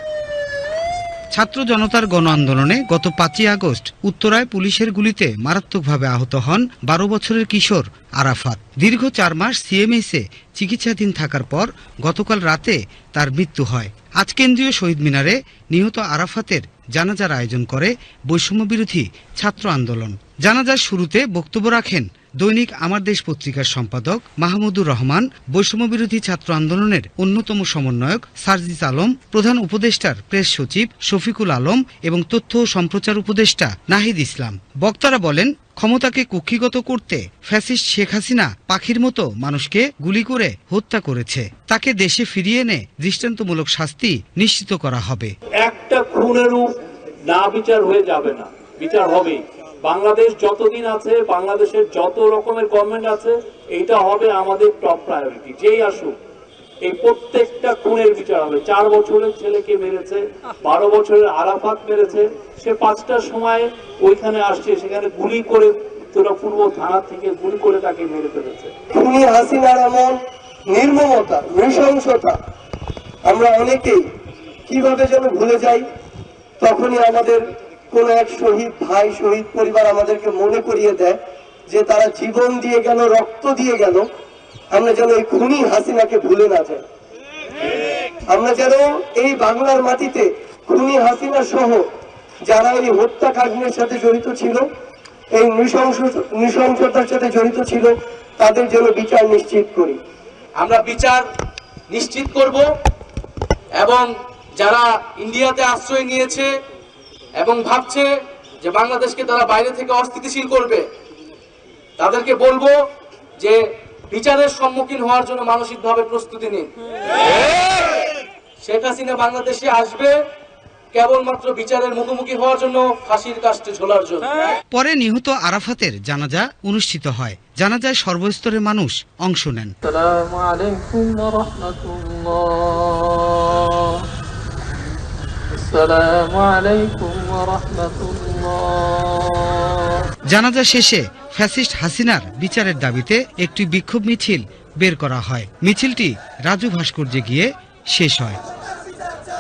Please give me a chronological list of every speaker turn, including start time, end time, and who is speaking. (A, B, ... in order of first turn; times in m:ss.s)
0:01.4-0:45.3 A
0:45.6-0:46.7 B
0:47.3-0:56.2 B
0:56.8-1:08.7 B
1:08.9-1:10.2 C
1:10.7-1:12.4 C
1:13.2-1:14.0 C
1:14.7-1:15.8 C
1:16.6-1:24.0 C
1:24.7-1:26.8 C
1:28.3-1:31.8 C
1:32.5-1:34.6 C
1:35.3-1:40.0 C
1:40.6-1:41.2 D
1:41.9-1:42.6 D
1:43.8-1:44.1 D
1:44.6-1:46.5 D
1:47.4-1:48.1 D
1:48.6-1:50.8 D
1:52.0-1:52.7 D
1:54.1-1:56.7 D
1:58.6-2:00.1 D
2:00.9-2:04.3 D
2:04.7-2:09.7 A
2:09.8-2:13.8 E
2:15.5-2:19.6 E
2:20.3-2:28.4 A